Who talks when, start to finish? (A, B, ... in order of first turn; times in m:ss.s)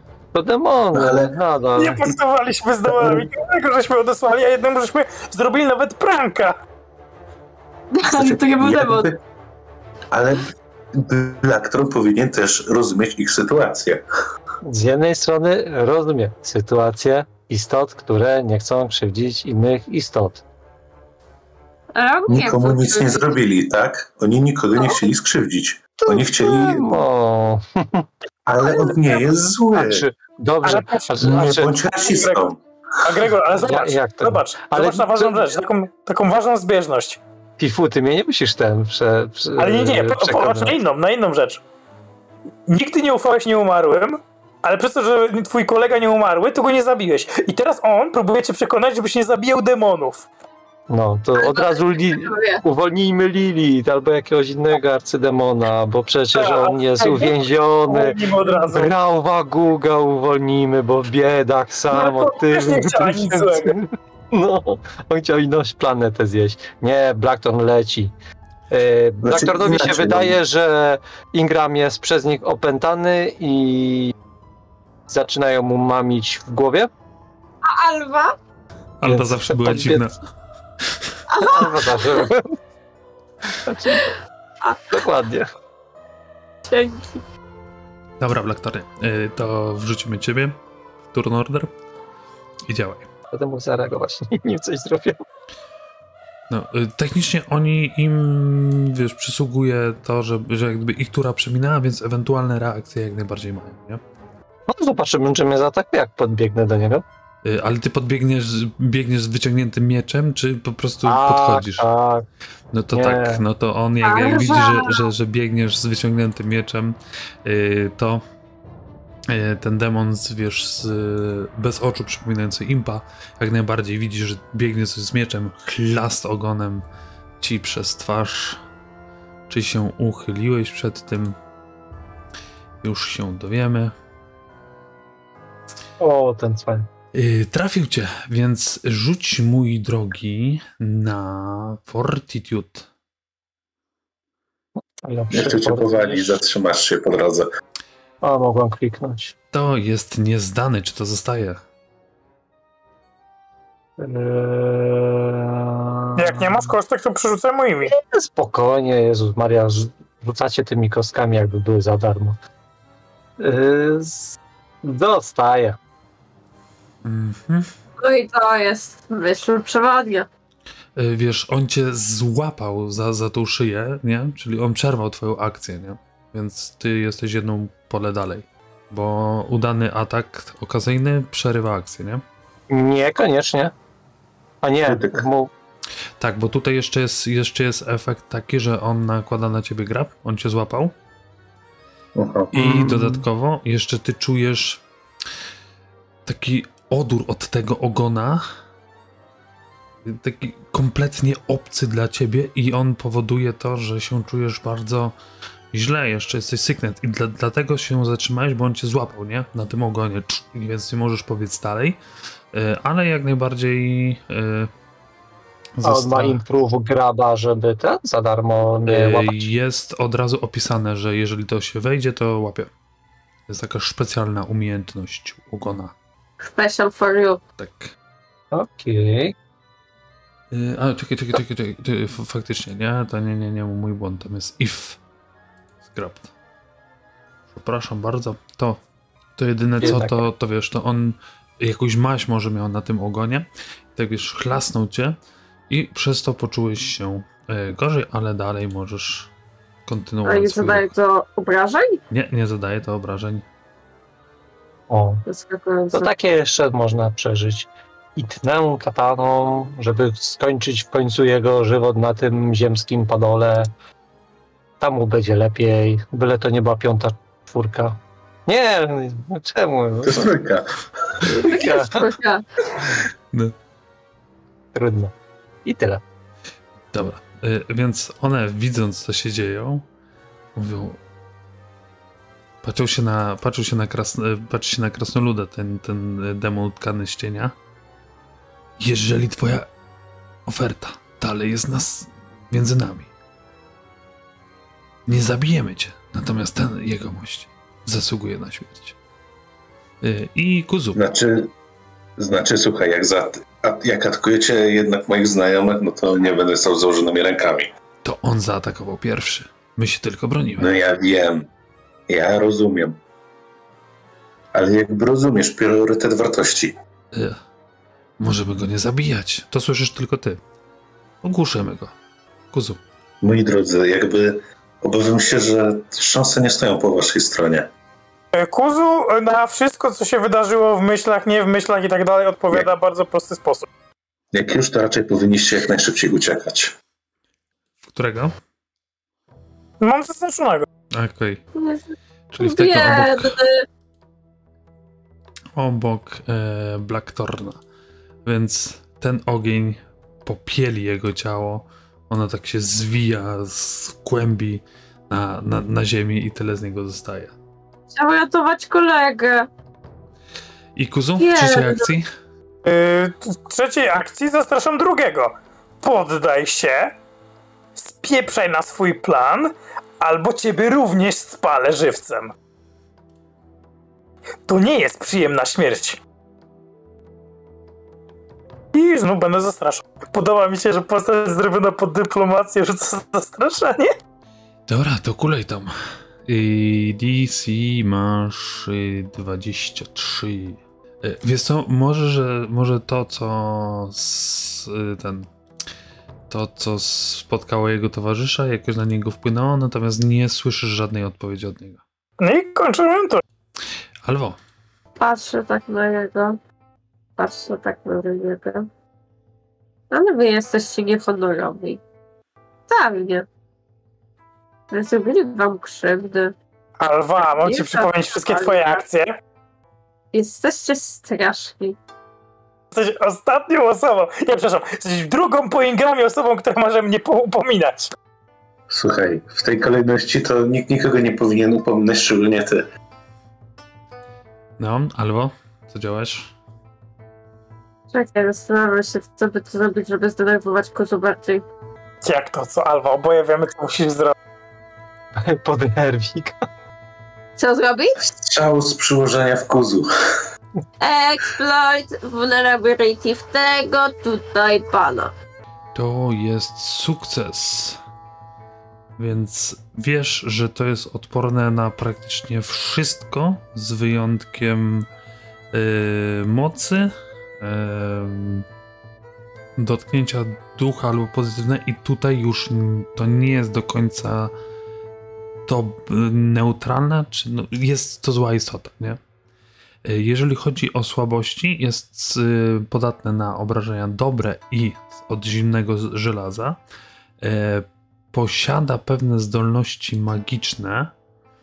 0:00.3-0:02.1 A
0:00.9-0:01.3 B
0:01.8-0:06.6 C
0:03.0-0:03.3 A
0:07.9-0:09.1 D
0:08.1-0:09.2 B
0:10.1-0:14.0 B
0:14.6-0:20.4 A
0:22.0-0:23.4 D
0:22.3-0:27.0 B
0:26.0-0:28.1 A
0:28.5-0:30.1 B
0:28.7-0:29.2 A
0:29.7-0:31.7 A
0:30.6-0:32.5 C
0:31.2-0:32.6 B
0:33.0-0:37.2 C
0:33.6-0:35.5 A
0:37.6-0:40.8 A
0:39.6-0:41.6 C
0:42.7-0:50.3 C
0:50.9-1:08.1 A
0:51.4-0:52.6 D
0:56.4-0:58.9 C
1:01.9-1:03.8 C
1:08.7-1:14.1 A
1:09.2-1:10.4 B
1:15.1-1:16.9 A
1:17.6-1:18.4 D
1:19.0-1:20.2 E
1:19.1-1:20.0 A
1:20.8-1:21.2 E
1:21.3-1:22.3 D
1:21.4-1:22.6 A
1:23.6-1:24.1 A
1:24.9-1:25.5 A
1:26.7-1:27.2 D
1:28.2-1:30.6 E
1:31.1-1:31.7 E
1:32.7-1:33.1 E
1:33.3-1:35.2 A
1:36.5-1:44.0 E
1:44.7-1:47.0 A
1:47.4-1:51.9 E
1:51.0-1:52.2 A
1:52.7-1:58.2 E
1:52.9-1:53.4 A
1:54.0-1:55.1 D
1:59.3-2:06.8 E
2:07.4-2:08.6 E
2:09.5-2:11.4 E
2:12.8-2:13.9 E
2:16.0-2:16.9 A
2:17.1-2:22.9 E
2:25.0-2:26.4 A
2:25.3-2:27.5 B
2:28.2-2:29.3 A
2:29.5-2:31.6 E
2:34.0-2:36.7 A
2:36.2-2:37.9 C
2:37.9-2:42.4 A
2:43.4-2:45.8 A
2:47.0-2:47.7 E
2:48.0-2:50.3 D
2:51.0-3:02.2 E
3:02.7-3:03.7 A
3:04.6-3:05.5 A
3:04.9-3:05.2 B
3:06.2-3:10.9 E
3:12.2-3:12.5 B
3:12.5-3:13.2 A
3:12.5-3:14.8 E
3:16.3-3:18.4 E
3:20.0-3:25.1 E
3:25.7-3:32.0 E
3:32.5-3:34.7 E
3:35.8-3:36.4 E
3:35.8-3:39.5 A
3:38.9-3:42.7 E
3:43.5-3:45.9 E
3:46.4-3:47.4 D
3:47.6-3:48.0 E
3:48.5-3:49.4 A
3:50.5-3:55.0 E
3:55.8-3:56.3 E
3:57.5-3:58.8 E
3:59.4-4:05.2 E
3:59.8-4:00.2 A
4:05.7-4:09.3 E
4:09.9-4:10.9 E
4:10.3-4:12.0 D
4:12.1-4:13.4 E
4:14.9-4:15.2 A
4:15.3-4:16.1 D
4:15.9-4:23.7 A
4:24.8-4:30.3 A
4:30.0-4:31.3 B
4:31.2-4:32.1 A
4:31.4-4:32.4 D
4:34.7-4:35.1 A
4:35.6-4:36.0 A
4:36.9-4:39.9 E
4:40.6-4:41.0 E
4:42.6-4:47.5 E
4:48.8-4:49.7 E
4:50.5-4:53.1 E
4:55.1-4:59.0 E
5:00.0-5:01.0 E
5:01.0-5:01.5 B
5:02.2-5:07.7 B
5:08.0-5:10.8 E
5:10.6-5:11.5 B
5:12.1-5:13.0 B
5:14.5-5:16.7 B
5:17.1-5:17.4 E
5:18.2-5:20.4 E
5:21.2-5:22.0 E
5:22.5-5:22.8 E
5:23.2-5:27.7 B
5:28.3-5:33.7 C
5:34.3-5:36.7 B
5:37.8-5:38.3 E
5:39.8-5:40.7 C
5:40.9-5:41.4 E
5:41.6-5:41.9 D
5:42.3-5:43.4 E
5:42.4-5:43.6 D
5:45.6-5:47.6 E
5:48.3-5:57.4 E
5:57.9-5:59.5 D
6:00.8-6:02.1 E
6:01.2-6:01.9 D
6:02.6-6:07.0 C
6:07.8-6:12.3 C
6:14.5-6:16.0 C
6:18.7-6:23.9 C
6:24.7-6:25.7 E
6:26.3-6:35.3 E
6:36.3-6:41.8 E
6:42.2-6:43.2 C
6:44.0-6:44.4 E
6:45.0-6:46.4 D
6:47.2-6:48.7 D
6:49.9-6:51.8 D
6:52.7-6:53.3 D
6:54.7-6:56.4 D
6:56.8-6:59.1 C
6:57.2-6:58.8 D
7:00.1-7:01.8 D
7:02.7-7:07.9 C
7:08.7-7:12.6 B
7:14.6-7:16.3 E
7:17.9-7:21.4 D
7:22.0-7:24.1 C
7:25.2-7:26.4 A
7:27.4-7:28.1 D
7:28.0-7:29.9 B
7:30.8-7:35.1 D
7:35.8-7:37.8 E
7:39.0-7:44.9 E
7:45.5-7:48.4 E
7:49.6-7:54.3 E
7:55.5-7:59.0 E
7:59.8-8:06.6 E
8:07.2-8:10.9 E